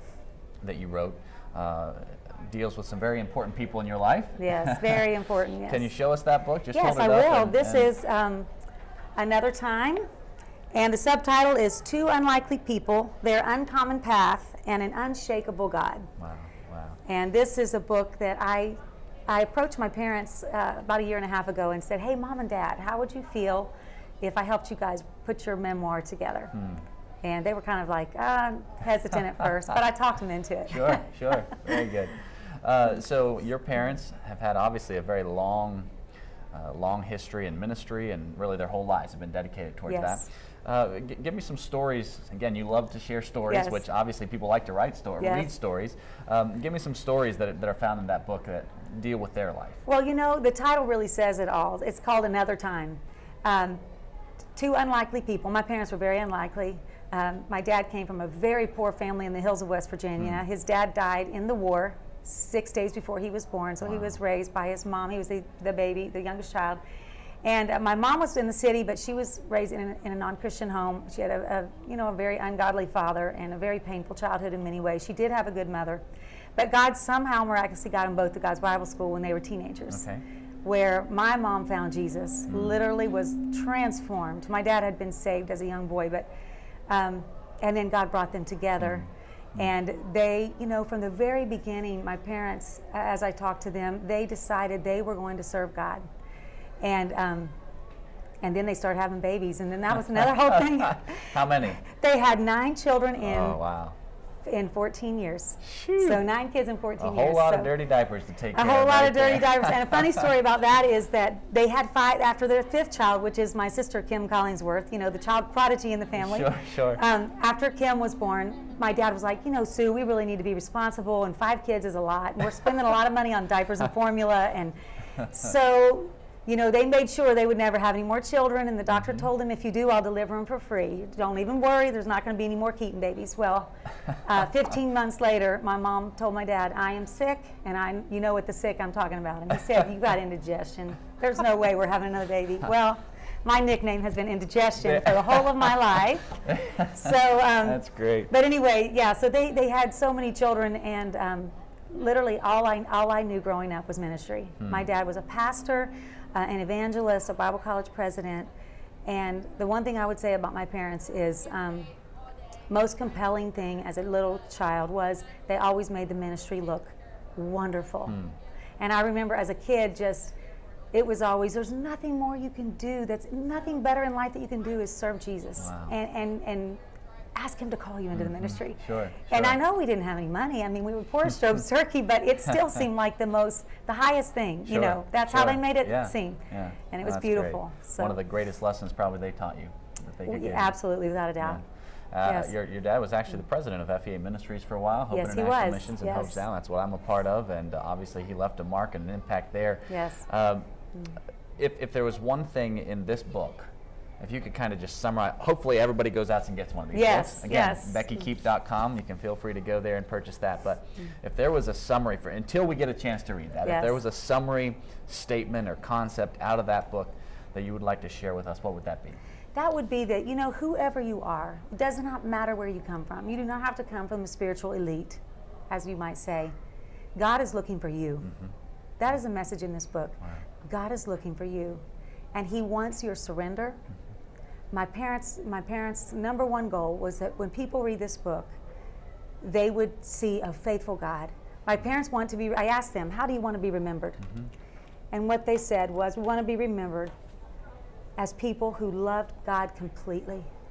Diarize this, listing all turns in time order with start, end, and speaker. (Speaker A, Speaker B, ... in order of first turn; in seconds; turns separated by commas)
Speaker A: 0.6-5.1, Speaker B: 4.4-5.9, Speaker A: 5.7-7.9, Speaker B: 6.7-8.5, Speaker B: 9.2-10.0, Speaker B: 10.7-16.1, Speaker A: 16.2-17.0, Speaker B: 17.0-26.5, Speaker A: 26.6-26.8, Speaker B: 27.2-31.0, Speaker A: 30.7-35.9, Speaker A: 36.5-49.8, Speaker B: 39.9-40.3, Speaker B: 43.5-43.8, Speaker B: 45.2-45.5, Speaker B: 49.9-53.8, Speaker B: 54.5-66.8, Speaker A: 63.8-64.2, Speaker B: 67.4-76.0, Speaker B: 76.5-80.0, Speaker A: 79.9-80.2, Speaker B: 80.6-86.3, Speaker A: 82.5-82.8, Speaker B: 86.9-96.0, Speaker B: 96.8-97.5, Speaker B: 98.4-103.6, Speaker A: 100.6-101.8, Speaker A: 103.2-104.0, Speaker B: 104.4-107.7, Speaker A: 105.6-106.2, Speaker A: 107.0-110.3, Speaker B: 108.5-158.5, Speaker A: 116.2-117.0, Speaker A: 128.9-129.2, Speaker A: 144.8-145.7, Speaker A: 146.4-148.3, Speaker A: 154.6-154.8, Speaker B: 159.1-161.9, Speaker B: 162.7-168.2, Speaker A: 168.1-168.3, Speaker B: 168.8-170.3, Speaker B: 170.9-176.8, Speaker A: 175.6-175.9, Speaker B: 177.3-188.2, Speaker A: 178.1-179.6, Speaker A: 184.7-190.8, Speaker B: 190.2-191.6, Speaker A: 192.1-200.7, Speaker B: 192.2-192.5, Speaker B: 195.1-196.4, Speaker B: 199.9-200.2, Speaker A: 201.6-219.2, Speaker B: 206.9-208.2, Speaker B: 213.6-214.0, Speaker B: 219.5-226.5, Speaker B: 227.2-228.3, Speaker B: 229.0-231.8, Speaker B: 232.3-233.8, Speaker B: 234.7-238.6, Speaker B: 239.4-244.4, Speaker B: 245.1-247.1, Speaker B: 248.2-250.5